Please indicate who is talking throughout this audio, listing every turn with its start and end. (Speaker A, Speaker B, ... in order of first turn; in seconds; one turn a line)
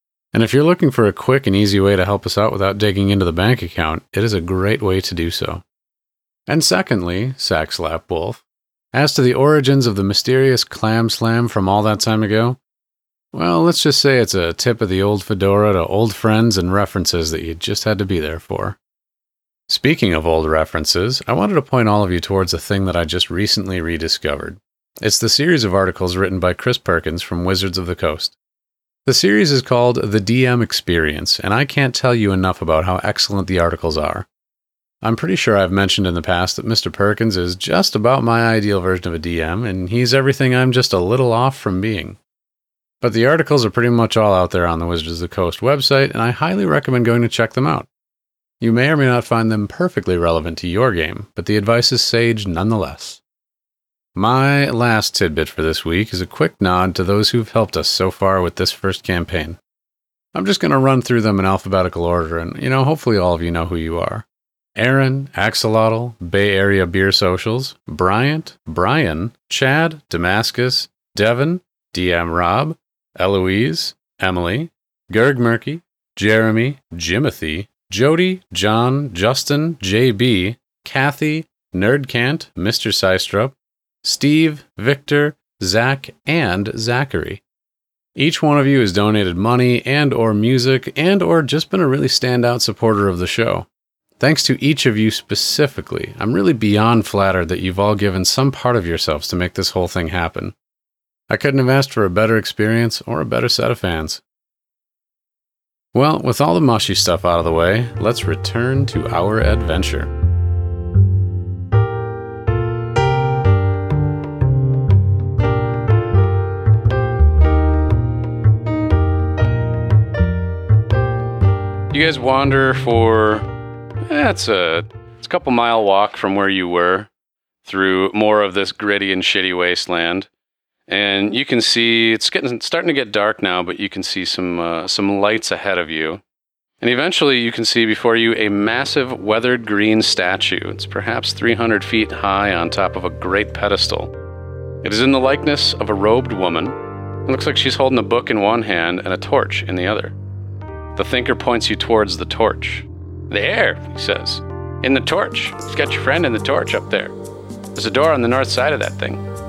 Speaker A: 0.3-5.6
Speaker A: 6.5-12.6
Speaker A: 13.3-18.8
Speaker A: 19.7-28.4
Speaker A: 29.1-34.3
Speaker A: 35.0-42.2
Speaker A: 43.0-47.9
Speaker A: 48.6-53.2
Speaker A: 54.1-59.6
Speaker A: 60.3-64.2
Speaker A: 64.8-87.4
Speaker A: 88.2-93.7
Speaker A: 94.2-100.5
Speaker A: 101.3-104.2
Speaker A: 105.9-110.1
Speaker A: 121.9-123.5
Speaker A: 124.1-127.1
Speaker A: 127.7-130.3
Speaker A: 130.9-136.2
Speaker A: 136.8-144.1
Speaker A: 144.8-150.2
Speaker A: 150.9-157.1
Speaker A: 157.8-159.2